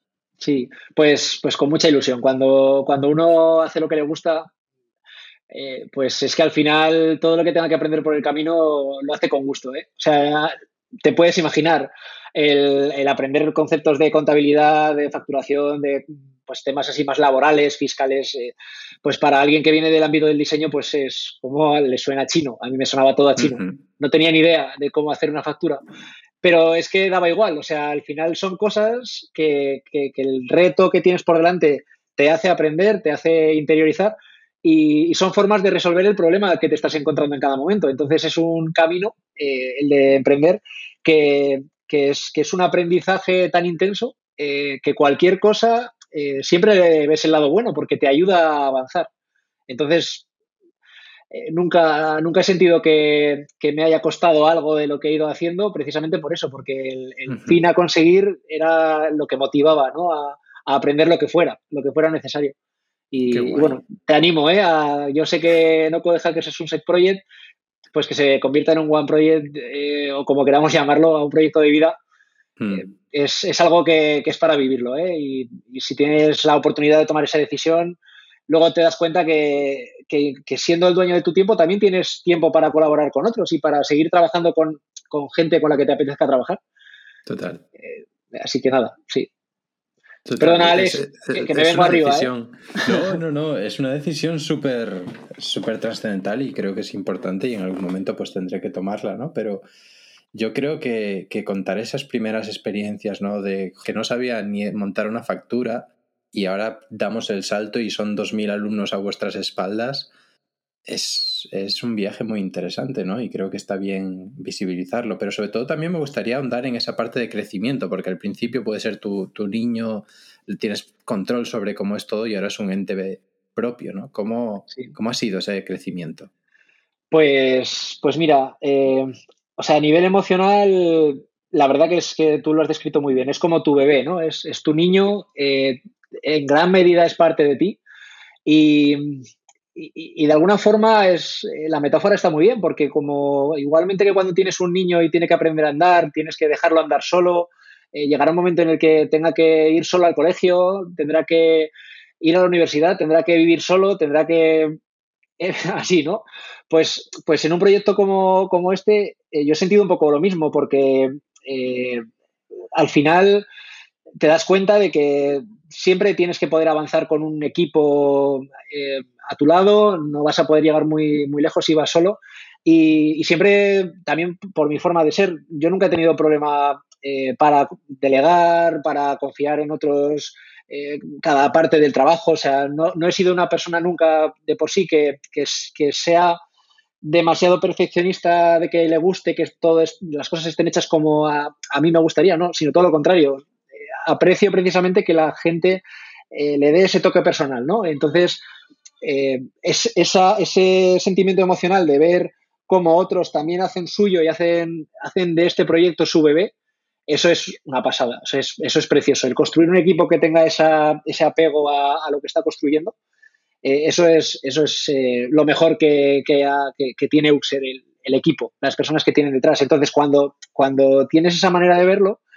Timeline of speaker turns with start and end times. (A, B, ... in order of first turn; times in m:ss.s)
0:00.4-0:04.5 A
0:05.5-0:10.5 A
0:11.0-0:18.5 A
0:19.0-0:25.8 A
0:23.4-0:23.8 B
0:26.4-0:49.1 A
0:49.7-0:50.3 A
0:51.3-1:02.6 A
0:57.3-0:57.6 B
1:03.1-1:07.2 A
1:03.3-1:03.8 B
1:08.0-1:12.0 A
1:12.6-1:12.9 B
1:12.7-1:26.6 A
1:27.3-1:27.6 B
1:27.8-1:29.3 A
1:30.2-1:39.6 B
1:30.4-1:32.3 A
1:40.3-1:50.1 B
1:50.9-2:06.3 B
2:07.1-2:17.8 A
2:18.5-2:19.2 A
2:19.8-2:34.8 A
2:35.4-2:42.0 A
2:42.8-2:43.4 A
2:44.2-3:06.4 A
3:07.0-3:13.5 A
3:14.0-3:15.8 A
3:16.3-3:18.4 A
3:19.0-3:26.5 A
3:27.1-3:33.0 A
3:33.6-3:42.2 A